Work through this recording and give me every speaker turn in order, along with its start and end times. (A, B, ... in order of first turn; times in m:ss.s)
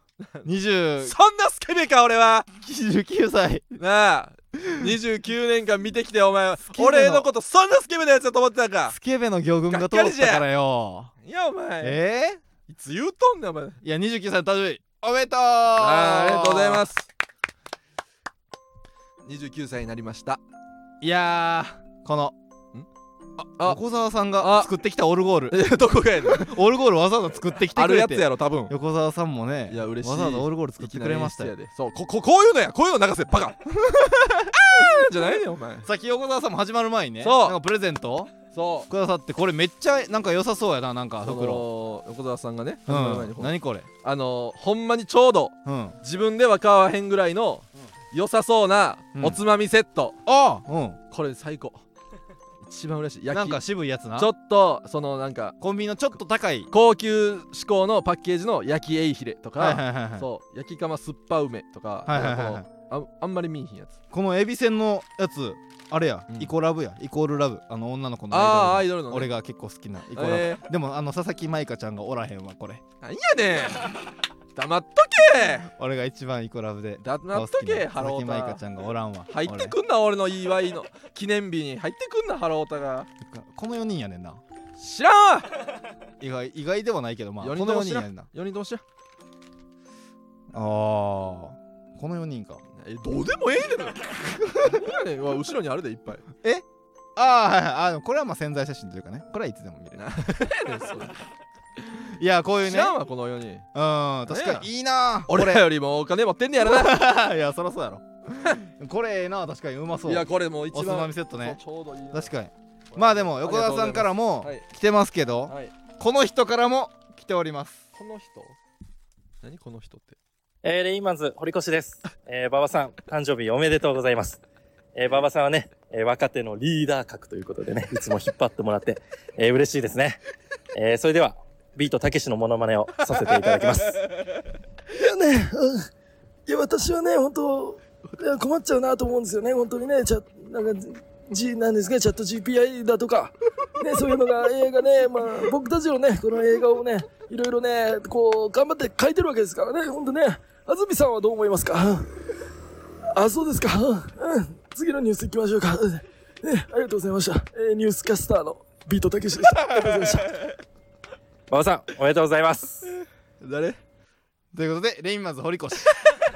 0:00.2-0:00.5 A
0:00.4-0:01.2 B
0:01.0-0:02.5 A
0:02.6-0:03.8 B
0:03.8-0:09.0 A
0:06.7-0:07.3 B
0:08.9-0:11.1 B
0:09.7-0:10.5 A
0:11.2-0:12.0 A
0:11.8-0:12.4 B
0:12.7-0:13.8 A
0:13.8-0:16.8 B
0:15.8-0:17.1 A
0:19.2-0:20.4 A
0:21.0-0:22.4 B
0:23.6-0:23.8 A
0:23.6-0:25.6 B
0:24.4-0:24.7 A
0:25.5-0:26.6 A
0:26.3-0:31.5 B
0:27.7-0:28.8 A
0:29.7-0:33.6 A
0:33.8-0:35.0 B
0:34.6-0:35.9 A
0:35.8-0:38.3 B
0:37.2-0:37.6 A
0:38.5-0:38.9 A
0:38.9-0:41.7 B
0:41.2-0:50.2 A
0:42.9-0:43.9 B
0:45.6-0:46.0 B
0:50.3-0:51.0 B
0:51.1-0:51.8 A
0:52.6-0:53.6 A
0:53.3-0:54.3 B
0:54.2-0:55.6 A
0:55.6-0:56.7 B
0:56.7-1:04.0 A
0:59.6-1:00.3 B
1:02.1-1:02.7 B
1:04.1-1:12.8 B
1:08.3-1:09.3 A
1:10.2-1:10.7 A
1:13.0-1:14.0 A
1:14.6-1:15.7 A
1:15.8-1:19.8 B
1:17.0-1:18.6 A
1:19.3-1:23.1 A
1:23.2-1:24.4 B
1:24.8-1:25.6 A
1:26.2-1:28.3 B
1:27.4-1:28.8 A
1:30.5-1:32.6 B
1:32.7-1:34.0 A
1:34.4-1:34.8 B
1:34.6-1:36.2 A
1:37.2-1:40.0 B
1:40.0-1:41.2 A
1:42.2-1:43.0 B
1:42.6-1:43.7 A
1:43.7-1:45.7 B
1:44.3-1:44.7 A
1:45.3-1:47.1 A
1:46.6-1:51.6 B
1:50.1-1:52.3 A
1:52.1-1:57.9 B
1:52.9-1:54.6 A
1:55.5-1:55.7 A
1:58.0-1:58.6 A
1:59.4-2:00.2 A
2:00.6-2:04.4 C
2:05.0-2:10.2 C
2:10.8-2:14.0 C
2:14.9-2:15.9 D
2:16.5-2:32.1 D
2:33.2-2:40.4 D
2:41.5-2:42.9 C
2:42.9-2:43.8 A
2:44.5-2:46.0 B